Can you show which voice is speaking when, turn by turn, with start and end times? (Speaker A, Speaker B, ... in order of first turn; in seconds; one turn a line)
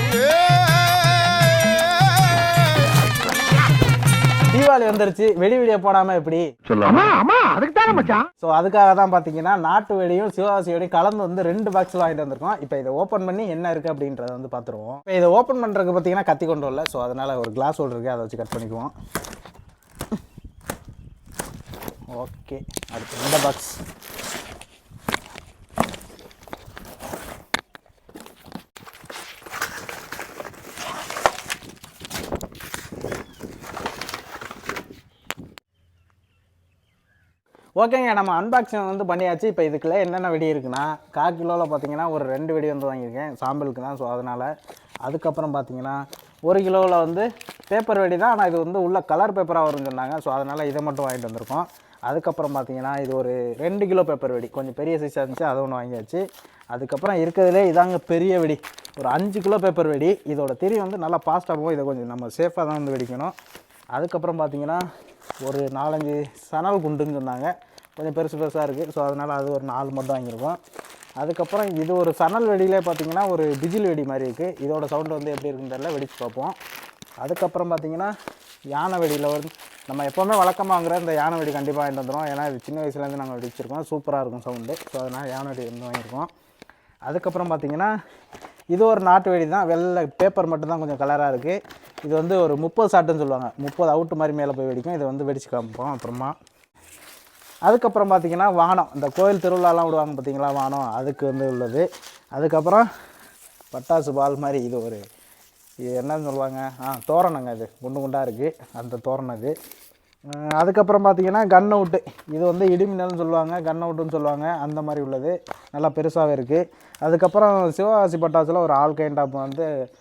Speaker A: 4.5-6.4
Speaker A: 8.4-18.9
Speaker A: 22.1-23.8
Speaker A: 37.8-44.5
Speaker A: 45.0-63.3
Speaker A: 63.9-64.8
Speaker A: 65.4-70.6
Speaker A: 71.2-76.5
Speaker A: 77.2-78.1
Speaker A: 78.7-86.3
Speaker A: 87.0-87.9
Speaker A: 88.7-96.3
Speaker A: 97.7-102.9
Speaker A: 103.7-105.0
Speaker A: 105.9-109.5
Speaker A: 110.3-119.7